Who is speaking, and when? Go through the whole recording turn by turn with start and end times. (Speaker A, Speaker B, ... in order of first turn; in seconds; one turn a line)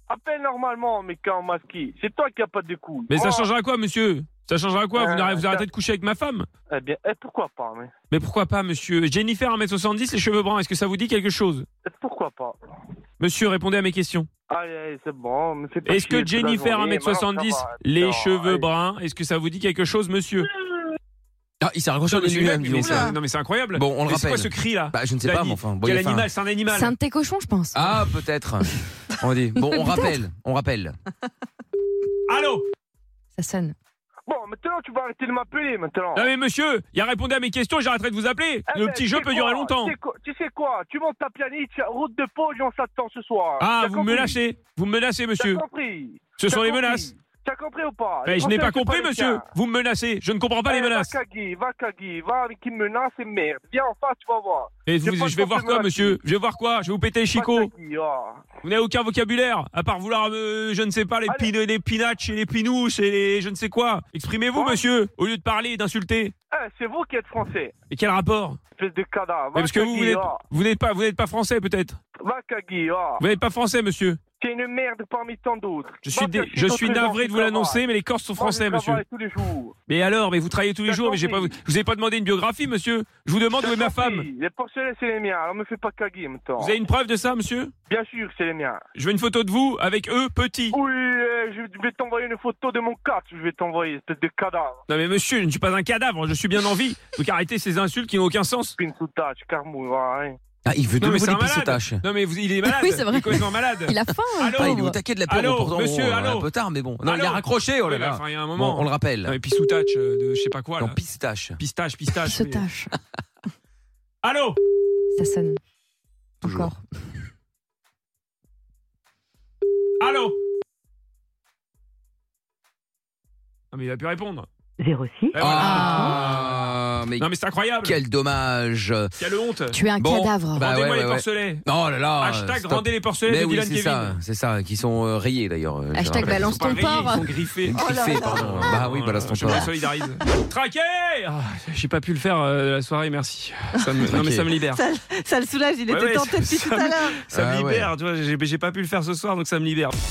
Speaker A: 0.1-3.5
Speaker B: 3.1-6.5
Speaker A: 5.0-5.7
Speaker A: 6.7-7.9
Speaker B: 8.1-11.7
Speaker A: 11.9-12.6
Speaker B: 13.2-14.3
Speaker A: 14.5-18.7
Speaker B: 15.8-20.5
Speaker C: 21.6-23.1
Speaker B: 22.1-26.9
Speaker D: 22.8-23.1
Speaker C: 23.7-26.3
Speaker E: 26.7-28.1
Speaker C: 27.7-30.9
Speaker E: 29.7-30.1
Speaker B: 32.3-32.7
Speaker E: 33.4-33.8
Speaker A: 34.3-36.3
Speaker B: 36.1-39.9
Speaker A: 38.7-44.4
Speaker B: 43.6-45.6
Speaker A: 45.4-49.5
Speaker B: 46.4-47.1
Speaker B: 48.2-51.2
Speaker A: 50.7-56.2
Speaker B: 54.9-57.7
Speaker A: 57.3-58.4
Speaker B: 58.6-66.3
Speaker A: 64.5-64.8
Speaker A: 66.5-67.7
Speaker B: 67.9-68.6
Speaker A: 68.8-70.4
Speaker B: 69.5-72.0
Speaker A: 72.2-73.3
Speaker B: 73.2-74.2
Speaker A: 74.4-77.8
Speaker B: 76.0-79.0
Speaker A: 78.4-79.7
Speaker B: 79.9-84.3
Speaker A: 80.8-81.5
Speaker A: 83.5-86.8
Speaker B: 86.6-87.7
Speaker A: 87.9-88.8
Speaker B: 89.0-90.8
Speaker A: 90.7-94.8
Speaker B: 94.9-98.8
Speaker A: 98.8-100.4
Speaker C: 100.7-102.0
Speaker B: 101.0-106.5
Speaker E: 102.6-105.0
Speaker C: 104.5-109.4
Speaker B: 107.0-111.0
Speaker C: 110.8-111.6
Speaker B: 111.6-112.7
Speaker E: 112.2-113.0
Speaker B: 114.2-114.6
Speaker E: 115.2-115.6
Speaker E: 116.4-116.8
Speaker C: 116.4-116.7
Speaker B: 120.0-120.4
Speaker B: 123.7-124.5
Speaker D: 124.8-125.3
Speaker B: 125.3-128.0
Speaker C: 125.4-127.3
Speaker E: 125.6-126.2
Speaker C: 127.8-129.1
Speaker B: 129.2-129.8
Speaker E: 129.7-130.7
Speaker C: 130.0-136.7
Speaker B: 130.6-131.7
Speaker B: 132.2-134.2
Speaker E: 135.9-137.3
Speaker B: 136.2-144.9
Speaker C: 137.7-139.7
Speaker D: 137.7-138.8
Speaker C: 144.0-144.5
Speaker D: 144.7-147.2
Speaker B: 145.8-149.9
Speaker C: 147.3-147.9